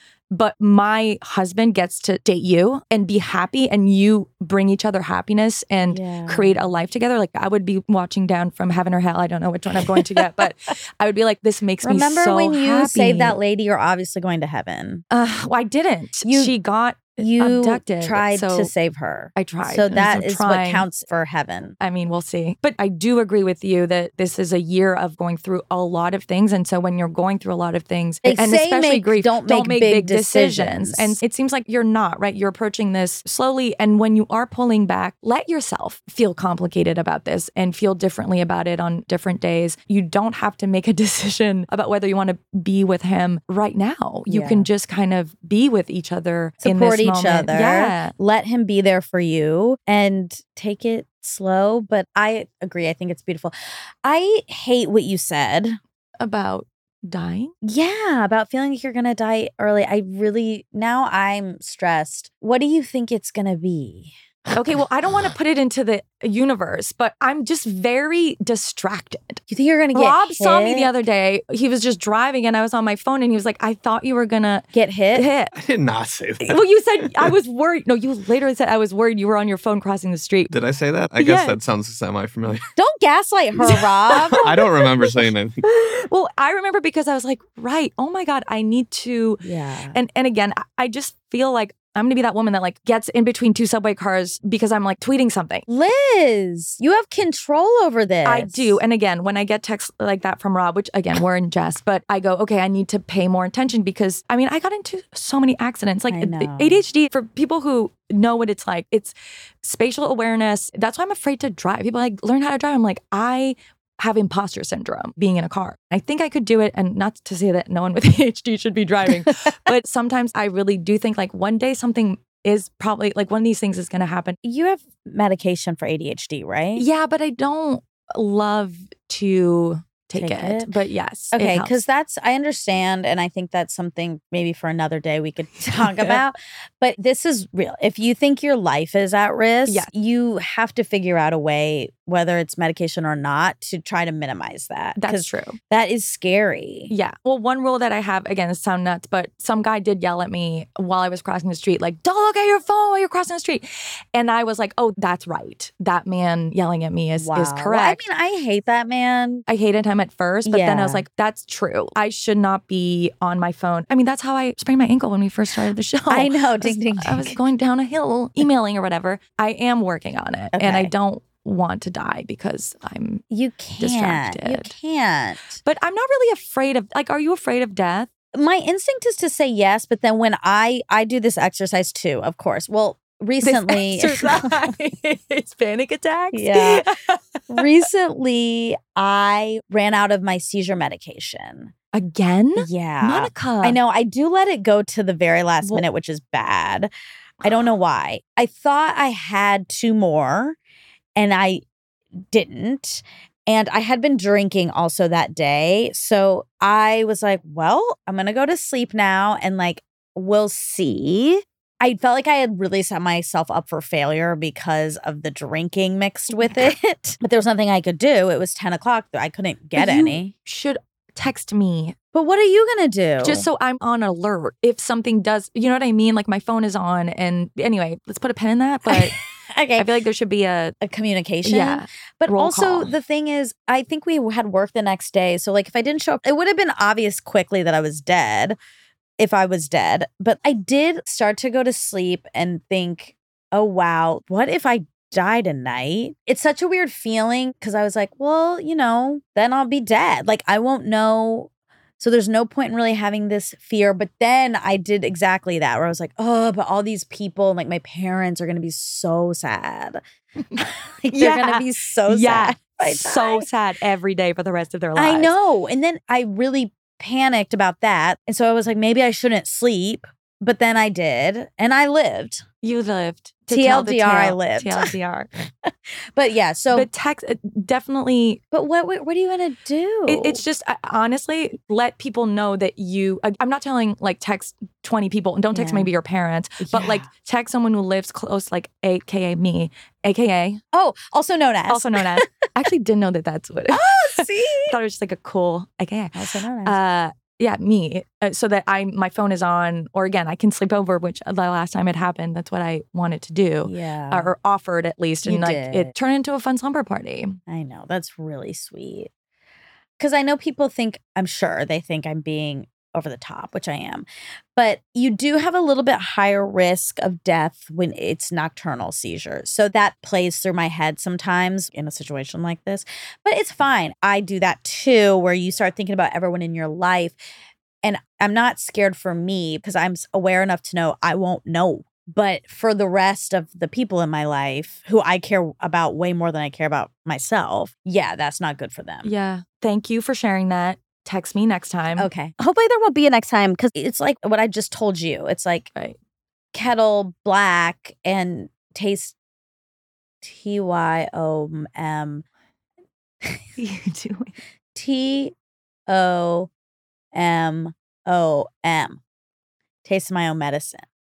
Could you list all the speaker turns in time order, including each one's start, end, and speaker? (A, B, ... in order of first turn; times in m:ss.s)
0:00.3-0:13.4 A
0:05.9-0:06.6 B
0:11.8-0:15.0 B
0:15.1-0:18.7 A
0:16.2-0:16.5 B
0:17.2-0:21.8 B
0:19.4-0:20.9 A
0:21.8-0:48.1 A
0:28.2-0:31.2 B
0:44.3-0:44.7 B
0:46.6-0:55.8 B
0:56.2-0:57.5 A
0:57.6-1:04.1 B
1:04.5-1:09.4 A
1:09.5-1:11.0 B
1:09.9-1:15.5 A
1:14.7-1:15.3 B
1:15.5-1:16.6 C
1:16.4-1:20.5 A
1:20.5-1:22.7 C
1:21.2-1:21.6 A
1:22.8-1:24.5 B
1:23.6-1:29.4 A
1:24.1-1:25.6 C
1:29.4-1:30.0 B
1:29.9-1:35.7 A
1:35.7-1:38.8 B
1:38.2-2:04.4 A
1:46.1-1:46.8 B
2:04.4-2:06.9 B
2:06.8-2:11.8 A
2:10.2-2:10.8 B
2:11.3-2:26.9 B
2:15.7-2:16.2 A
2:25.0-2:25.6 A
2:26.9-2:38.0 A
2:37.2-2:39.4 B
2:39.5-2:53.2 A
2:40.5-2:41.0 B
2:46.1-2:47.4 B
2:50.5-2:50.9 B
2:53.3-2:55.6 B
2:53.8-2:54.7 A
2:55.6-2:58.1 A
2:58.3-3:04.6 B
3:03.4-3:07.7 A
3:06.3-3:06.8 B
3:07.5-3:11.7 B
3:11.9-3:13.8 A
3:12.6-3:16.9 B
3:17.4-3:20.6 B
3:21.2-3:21.6 B
3:22.3-3:40.3 B
3:36.3-3:36.7 A
3:39.8-3:42.0 A
3:42.1-3:43.5 B
3:43.2-3:49.2 A
3:48.9-3:50.0 B
3:49.8-3:50.8 A
3:50.8-3:58.6 B
3:51.4-3:52.9 A
3:59.2-4:20.0 B
4:20.5-4:25.3 A
4:20.6-4:23.5 B
4:25.0-4:32.4 B
4:32.6-4:35.3 A
4:33.5-4:34.9 B
4:35.6-4:36.9 B
4:36.7-4:38.4 A
4:38.5-4:40.4 B
4:40.1-4:50.6 A
4:45.5-4:45.9 B
4:46.6-4:47.1 B
4:50.7-4:52.3 B
4:51.7-5:07.4 A
4:53.7-4:54.8 B
4:56.1-4:56.8 B
5:03.6-5:04.3 B
5:05.2-5:05.9 B
5:07.5-5:09.1 B
5:10.0-5:27.2 B
5:27.8-5:39.1 B
5:39.0-5:42.1 A
5:42.0-5:45.7 B
5:46.5-5:49.2 B
5:50.2-5:52.2 B
5:53.6-5:54.4 A
5:54.8-5:55.4 B
5:55.9-5:56.5 B
5:57.1-5:59.0 B
5:59.8-6:00.9 B